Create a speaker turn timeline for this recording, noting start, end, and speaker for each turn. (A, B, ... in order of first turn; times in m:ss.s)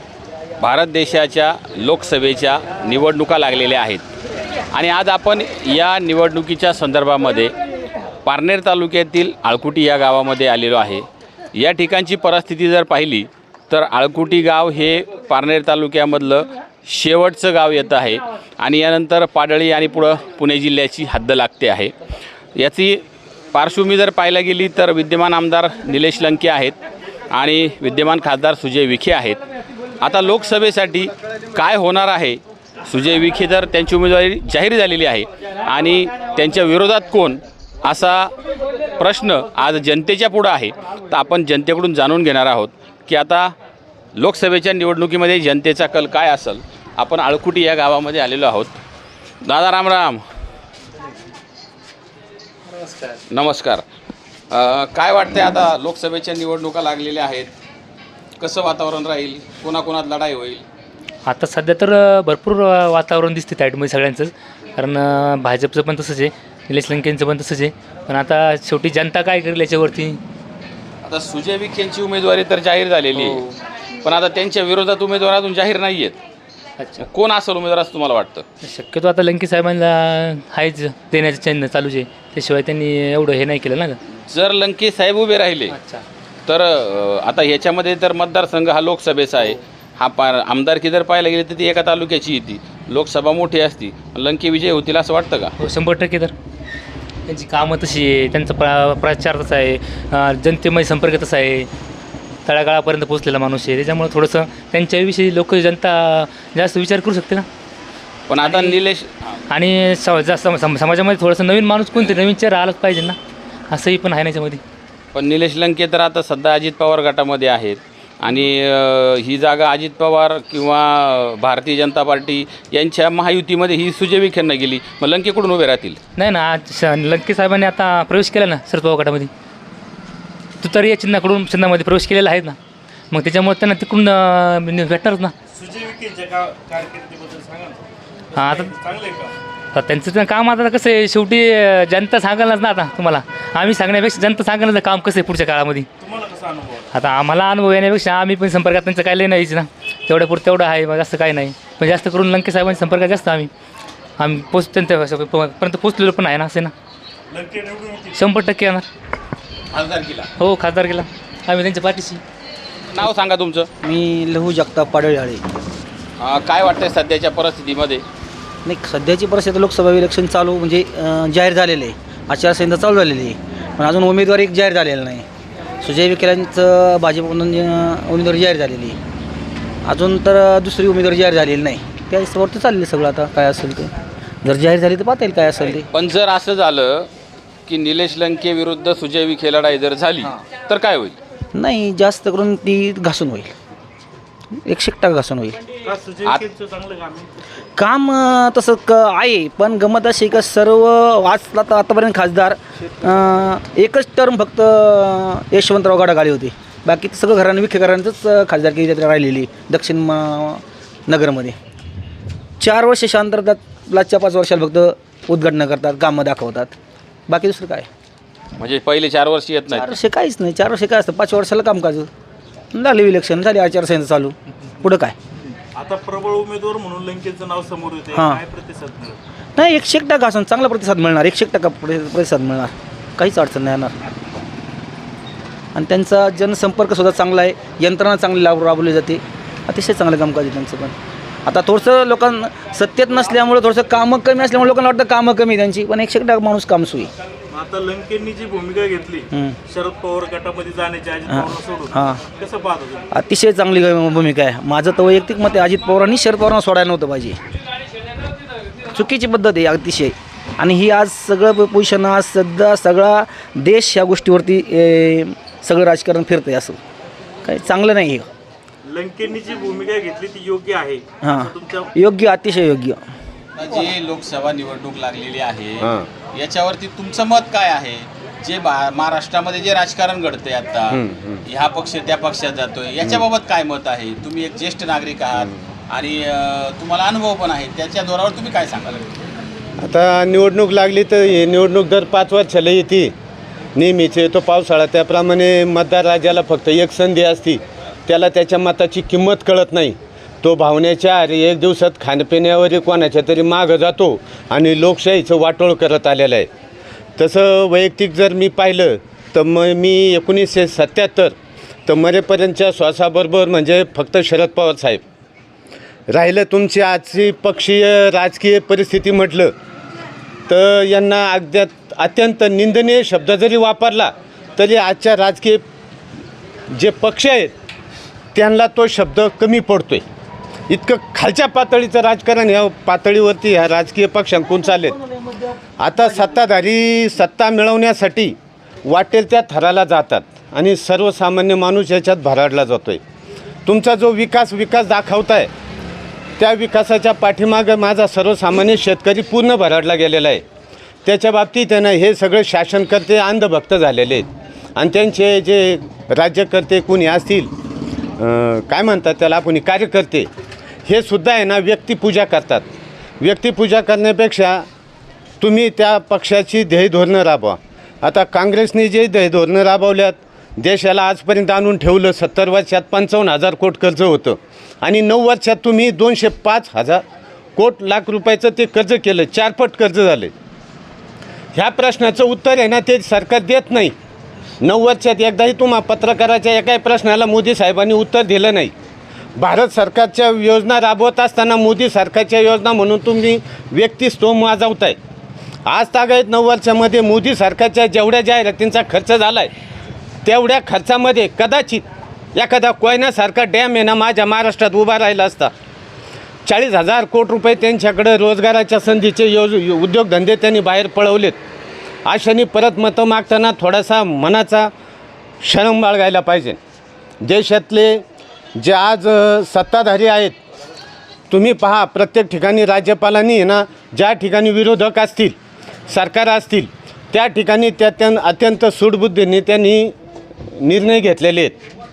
0:00.6-0:04.0 A
0:04.7-0:07.5 A
0:08.2-0:21.9 A
0:22.6-0:26.8 A
0:27.3-0:29.4 A
0:30.0-0:38.3 A
0:39.0-0:43.5 A
0:44.2-0:48.8 A
0:49.4-0:50.2 A
0:53.3-0:53.8 A
0:54.5-0:57.5 A
0:58.4-1:00.6 A
1:01.3-1:10.2 B
1:11.1-1:16.2 A
1:13.2-1:13.5 B
1:16.8-1:17.1 B
1:17.0-1:18.5 A
1:18.6-1:24.0 B
1:24.2-1:25.7 A
1:25.7-1:26.0 B
1:26.5-1:35.5 A
1:35.6-1:36.3 B
1:37.3-1:41.7 B
1:42.5-1:47.5 B
1:48.3-1:49.1 A
1:48.4-1:48.8 B
1:49.5-1:53.2 B
1:53.7-1:54.6 B
1:55.1-2:06.0 A
2:06.2-2:09.3 B
2:10.6-2:12.6 B
2:13.1-2:15.3 B
2:15.5-2:17.8 C
2:18.3-2:18.7 B
2:18.4-2:19.3 C
2:19.7-2:25.9 B
2:26.0-2:26.9 C
2:26.9-2:33.5 B
2:34.2-2:36.7 B
2:37.3-2:38.2 C
2:38.2-2:38.8 B
2:39.7-2:40.3 A
2:40.4-2:42.2 B
2:42.9-2:43.7 A
2:43.8-2:45.5 D
2:46.2-2:48.0 A
2:48.6-2:55.3 D
2:55.8-2:59.0 D
2:59.8-3:05.9 D
3:05.9-3:07.1 A
3:07.7-3:11.2 A
3:11.5-3:13.5 D
3:14.5-3:15.6 D
3:15.8-3:17.4 C
3:17.8-3:31.6 D
3:32.6-3:36.8 D
3:37.3-3:37.9 D
3:38.6-3:40.0 A
3:39.7-3:42.1 D
3:42.7-3:45.2 D
3:45.7-3:49.2 C
3:48.1-3:48.5 D
3:49.6-3:54.0 D
3:55.8-4:00.9 D
4:01.5-4:07.1 D
4:07.5-4:13.1 C
4:09.3-4:09.6 D
4:11.3-4:12.3 D
4:13.1-4:17.4 D
4:18.9-4:26.8 D
4:27.4-4:28.3 D
4:28.8-4:31.9 C
4:31.2-4:33.0 D
4:33.6-4:49.1 A
4:35.8-4:36.1 E
4:40.9-4:41.4 E
4:49.8-4:53.1 E
4:53.8-5:06.5 E
5:07.2-5:11.3 E
5:11.9-5:15.0 E
5:16.1-5:19.5 E
5:20.5-5:25.6 E
5:26.7-5:27.5 E
5:28.3-5:30.0 E
5:30.7-5:35.0 E
5:35.8-5:43.0 E
5:43.6-5:45.5 E
5:46.4-5:50.4 E
5:51.0-5:57.5 E
5:58.2-6:00.3 E
6:00.8-6:02.6 E
6:03.2-6:04.6 E
6:05.4-6:17.0 E
6:17.6-6:20.3 E
6:21.5-6:23.9 E
6:24.6-6:28.7 E
6:29.4-6:35.0 E
6:35.6-6:39.5 E
6:40.2-6:45.5 E
6:46.4-6:51.4 E
6:52.0-6:54.7 E
6:55.4-6:56.6 E
6:57.2-6:58.0 E
6:58.6-7:00.4 E
7:01.3-7:05.4 E
7:05.9-7:09.9 E
7:10.5-7:11.6 E